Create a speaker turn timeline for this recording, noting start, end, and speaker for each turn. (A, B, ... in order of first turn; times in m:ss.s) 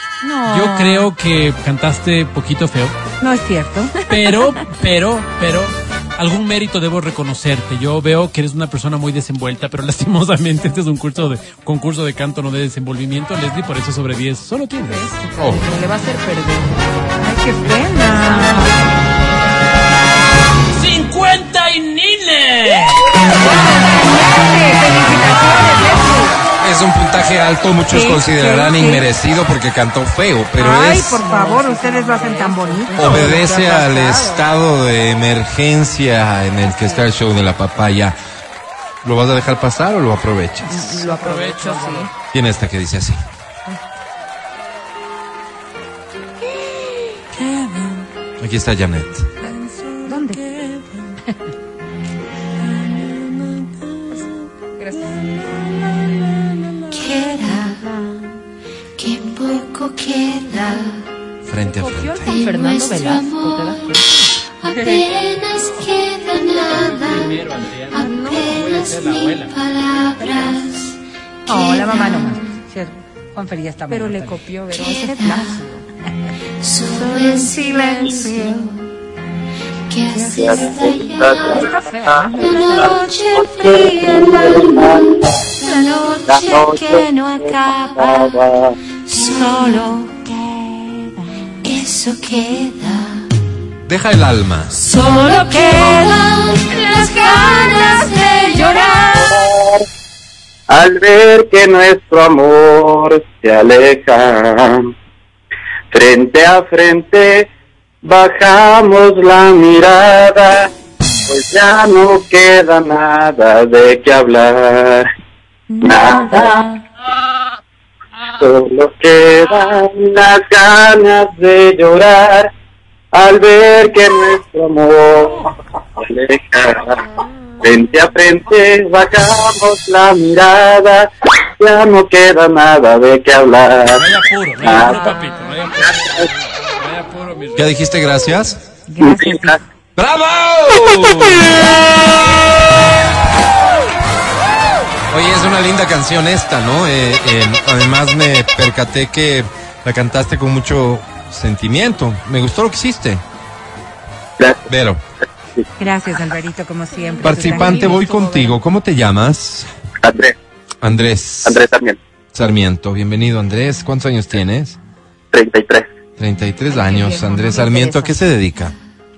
0:00.2-0:01.1 A
0:00.4-0:02.9 B
0:03.2-0:03.9 A
0:04.1-0:15.2 B
0:14.8-0:16.9 C
0:15.4-0:15.6 D
0:17.2-0:18.8 A
0:18.1-0:18.8 C
0:20.7-0:23.0 B
0:23.4-0:26.4 A
0:26.6-0:31.2 D
0:27.9-0:29.1 A
0:30.6-0:33.4 A
0:31.2-0:34.4 C
0:32.9-0:38.2 D
0:36.6-0:37.0 C
0:39.0-0:41.0 D
0:40.6-0:42.1 C
0:40.9-0:42.1 B
0:42.3-0:43.2 D
0:47.3-0:48.0 B
0:48.4-0:49.3 D
0:49.4-0:50.9 B
0:50.0-0:50.4 A
0:54.8-0:55.1 C
0:56.9-0:57.8 E
0:57.0-0:58.1 C
0:59.0-1:01.0 E
1:01.5-1:02.5 D
1:01.6-1:05.1 C
1:02.3-1:04.0 E
1:04.6-1:07.3 E
1:06.4-1:09.6 B
1:07.9-1:10.8 E
1:11.5-1:12.4 E
1:11.5-1:15.8 A
1:13.9-1:15.4 C
1:14.8-1:15.5 E
1:16.6-1:18.8 E
1:16.9-1:18.7 A
1:19.9-1:21.6 E
1:20.1-1:20.5 A
1:20.2-1:25.2 F
1:21.5-1:23.0 A
1:22.3-1:24.6 E
1:23.9-1:24.4 C
1:25.6-1:28.3 E
1:26.2-1:28.8 F
1:29.1-1:30.2 E
1:29.2-1:29.9 A
1:31.6-1:33.2 E
1:33.8-1:34.8 D
1:34.8-1:39.0 C
1:35.1-1:39.2 E
1:38.8-1:39.8 F
1:40.7-1:44.9 F
1:45.9-1:47.5 F
1:48.0-1:50.7 F
1:51.3-1:55.0 F
1:55.8-1:56.7 F
1:58.4-2:02.5 F
2:03.1-2:07.0 F
2:07.6-2:11.1 F
2:11.6-2:15.1 F
2:13.9-2:16.2 B
2:15.8-2:16.2 F
2:16.8-2:17.7 B
2:17.6-2:18.6 D
2:18.9-2:19.6 A
2:19.0-2:19.6 F
2:20.0-2:22.1 D
2:25.1-2:33.2 D
2:34.4-2:34.7 F
2:34.7-2:35.0 D
2:35.8-2:38.1 A
2:37.0-2:38.5 C
2:37.2-2:39.7 D
2:40.0-2:40.3 F
2:40.8-2:41.6 D
2:41.4-2:42.0 F
2:42.3-2:44.8 D
2:45.3-2:45.8 F
2:46.2-2:48.7 D
2:46.7-2:48.2 C